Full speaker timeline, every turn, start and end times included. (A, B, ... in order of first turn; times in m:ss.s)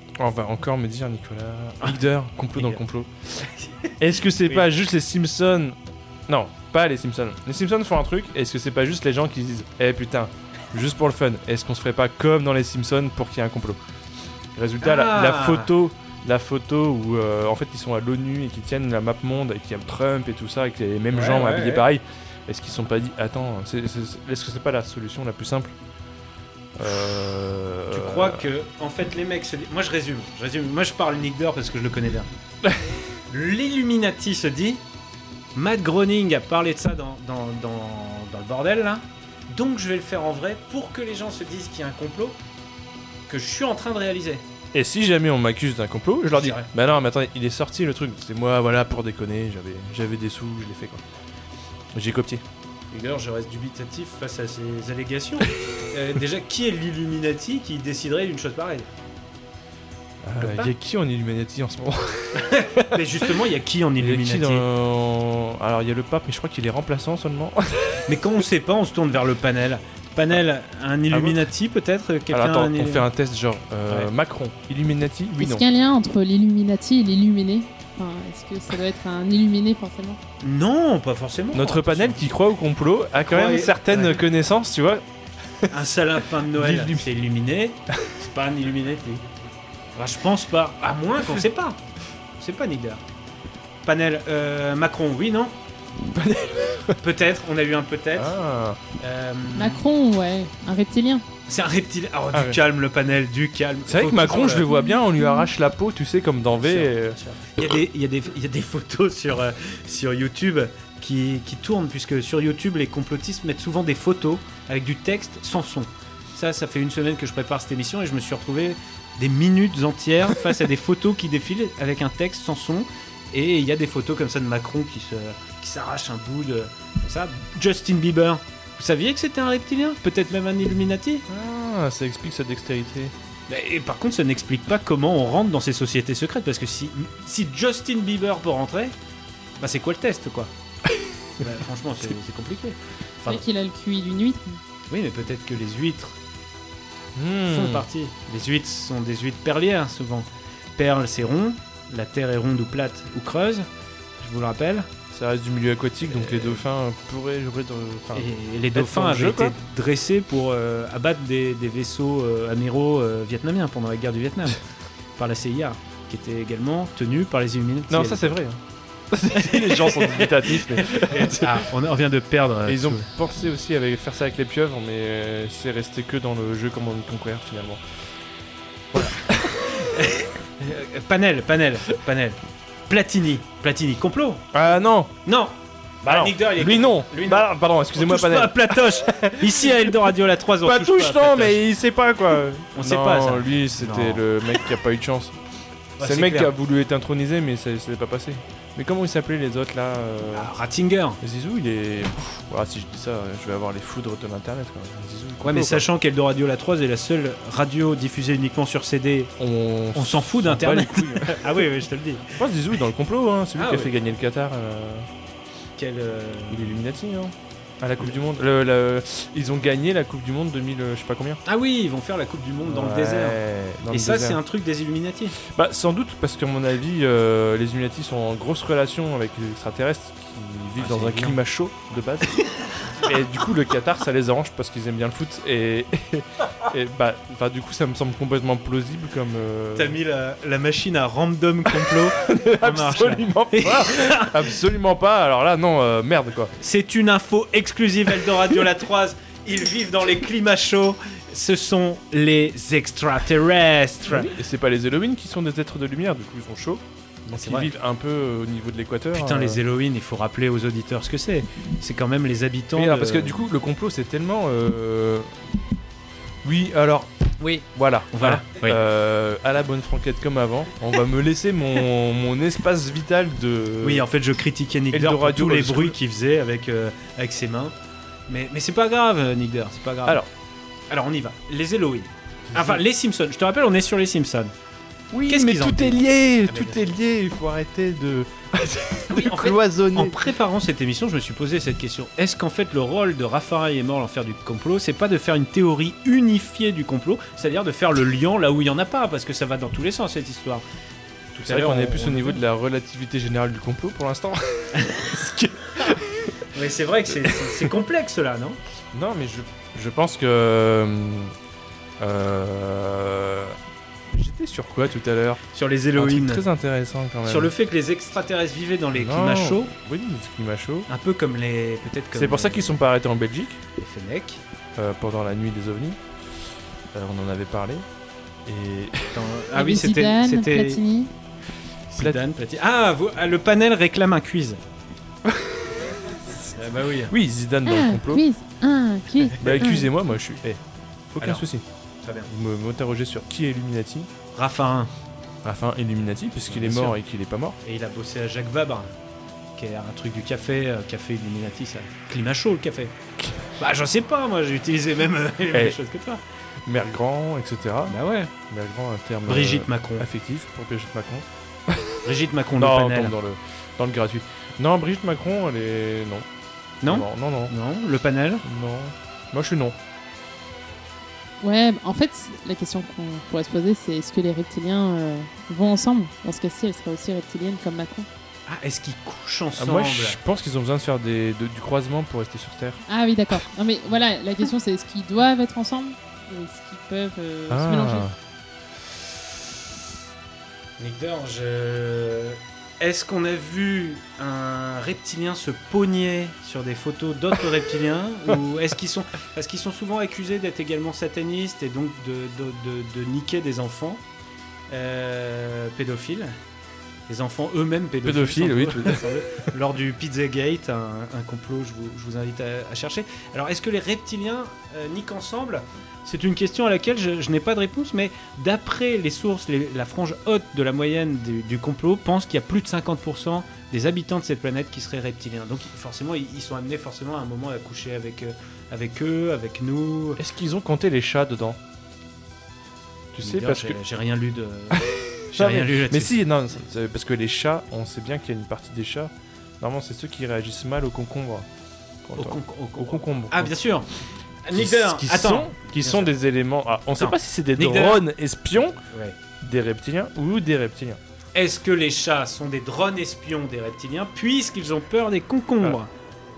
0:00.2-0:03.1 A
0:02.6-0:02.8 B
0:03.4-0:04.7 B
0:04.0-0:05.8 A
0:06.3-0:13.8 A
0:14.5-0:25.7 A
0:14.8-0:15.7 B
0:21.1-0:21.8 B
0:26.8-0:28.5 A
0:27.9-0:32.3 B
0:33.3-0:34.8 B
0:35.5-0:42.4 B
0:43.3-0:44.4 B
0:44.7-0:51.0 A
0:46.3-0:46.7 B
0:51.9-0:52.4 A
0:52.9-0:58.9 B
1:00.2-1:03.2 A
1:00.4-1:00.7 B
1:02.4-1:04.7 B
1:04.0-1:08.0 A
1:08.1-1:13.1 B
1:11.1-1:11.4 A
1:12.3-1:15.6 A
1:15.4-1:20.2 C
1:20.4-1:22.2 B
1:21.5-1:25.0 A
1:23.2-1:24.2 B
1:25.7-1:29.2 B
1:26.5-1:27.1 A
1:29.9-1:31.8 B
1:32.4-1:33.0 B
1:33.8-1:35.5 B
1:36.1-1:37.0 A
1:37.0-1:38.3 B
1:38.1-1:38.8 A
1:39.0-1:39.8 B
1:39.5-1:41.2 C
1:41.5-1:44.7 B
1:42.3-1:42.6 A
1:43.9-1:47.2 A
1:44.7-1:45.5 C
1:46.6-2:11.2 B
2:11.3-2:13.1 A
2:13.5-2:18.9 B
2:19.6-2:20.5 B
2:21.4-2:23.4 B
2:23.3-2:24.6 C
2:24.9-2:26.2 B
2:27.1-2:27.8 A
2:27.4-2:33.7 B
2:34.2-2:34.9 B
2:35.1-2:39.6 A
2:36.1-2:36.6 B
2:38.1-2:44.6 B
2:45.2-2:48.4 B
2:47.9-2:48.6 A
2:49.1-2:51.6 A
2:49.3-2:53.1 B
2:52.6-2:57.8 A
2:58.9-2:59.8 A
2:59.7-3:04.4 B
3:04.5-3:05.2 A
3:05.2-3:11.6 B
3:06.0-3:09.9 A
3:10.6-3:15.4 A
3:12.7-3:14.2 B
3:16.0-3:16.5 B
3:16.0-3:20.5 A
3:20.3-3:21.2 B
3:21.2-3:25.8 A
3:25.4-3:29.3 B
3:29.4-3:31.6 A
3:29.9-3:32.3 B
3:32.3-3:35.1 A
3:33.6-3:33.9 B
3:35.8-3:36.8 B
3:36.5-3:41.4 A
3:41.4-3:45.4 B
3:42.6-3:44.4 A
3:45.4-4:00.0 A
3:50.8-3:51.4 B
3:59.7-4:04.5 B
4:01.8-4:06.5 A
4:06.6-4:14.3 B
4:14.1-4:19.6 A
4:17.3-4:17.7 B
4:19.1-4:23.4 B
4:22.7-4:25.3 A
4:26.4-4:27.1 A
4:27.4-4:28.8 B
4:27.7-4:34.1 A
4:33.8-4:37.7 B
4:34.9-4:36.0 A
4:38.3-4:40.2 B
4:40.9-4:44.5 B
4:42.5-4:42.8 A
4:45.1-4:50.3 A
4:45.3-4:46.9 B
4:49.1-5:00.6 B
5:01.3-5:02.4 B
5:01.4-5:06.4 A
5:04.8-5:05.1 B
5:06.5-5:08.6 B
5:07.2-5:07.5 A
5:08.9-5:11.3 A
5:12.0-5:13.6 A
5:14.1-5:15.4 A
5:15.5-5:16.4 B
5:16.0-5:17.5 A
5:17.2-5:19.7 B
5:18.9-5:20.9 A
5:20.9-5:22.8 B
5:22.1-5:23.6 A
5:23.8-5:24.4 B
5:24.8-5:26.0 A
5:26.9-5:27.8 A
5:28.4-5:29.2 A
5:29.1-5:30.8 B
5:29.5-5:31.1 C
5:31.9-5:34.6 B
5:32.0-5:32.2 A
5:35.2-5:36.5 A
5:36.5-5:37.1 B
5:37.1-5:38.2 A
5:37.6-5:39.9 C
5:39.4-5:39.6 B
5:39.4-5:40.6 A
5:41.1-5:41.6 A
5:41.2-5:41.4 B
5:42.0-5:42.3 B
5:42.3-5:44.1 A
5:44.3-5:44.9 B
5:45.4-5:47.6 A
5:46.5-5:47.0 B
5:47.6-5:48.9 B
5:49.6-5:52.9 B
5:53.2-5:53.5 A
5:53.6-5:56.2 B
5:55.5-5:55.8 A
5:56.6-6:02.0 A
5:57.9-5:58.3 B
5:59.3-6:00.1 B
6:02.0-6:03.1 B
6:02.6-6:06.3 A
6:06.8-6:08.4 B
6:06.8-6:07.5 A
6:08.4-6:09.8 A
6:11.4-6:18.1 C
6:18.5-6:20.2 B
6:19.6-6:22.8 A
6:22.9-6:28.1 C
6:27.5-6:28.1 A
6:30.8-6:44.0 B
6:44.7-6:46.3 B
6:47.1-7:10.2 B
6:48.0-6:49.1 A
7:10.2-7:11.6 A
7:13.1-7:13.8 A
7:13.2-7:16.2 B
7:14.8-7:21.5 A
7:22.0-7:23.6 A
7:22.2-7:23.9 B
7:24.4-7:26.1 B
7:24.5-7:28.8 A
7:26.9-7:28.0 B
7:28.9-7:29.2 B
7:29.4-7:31.0 A
7:31.3-7:35.9 B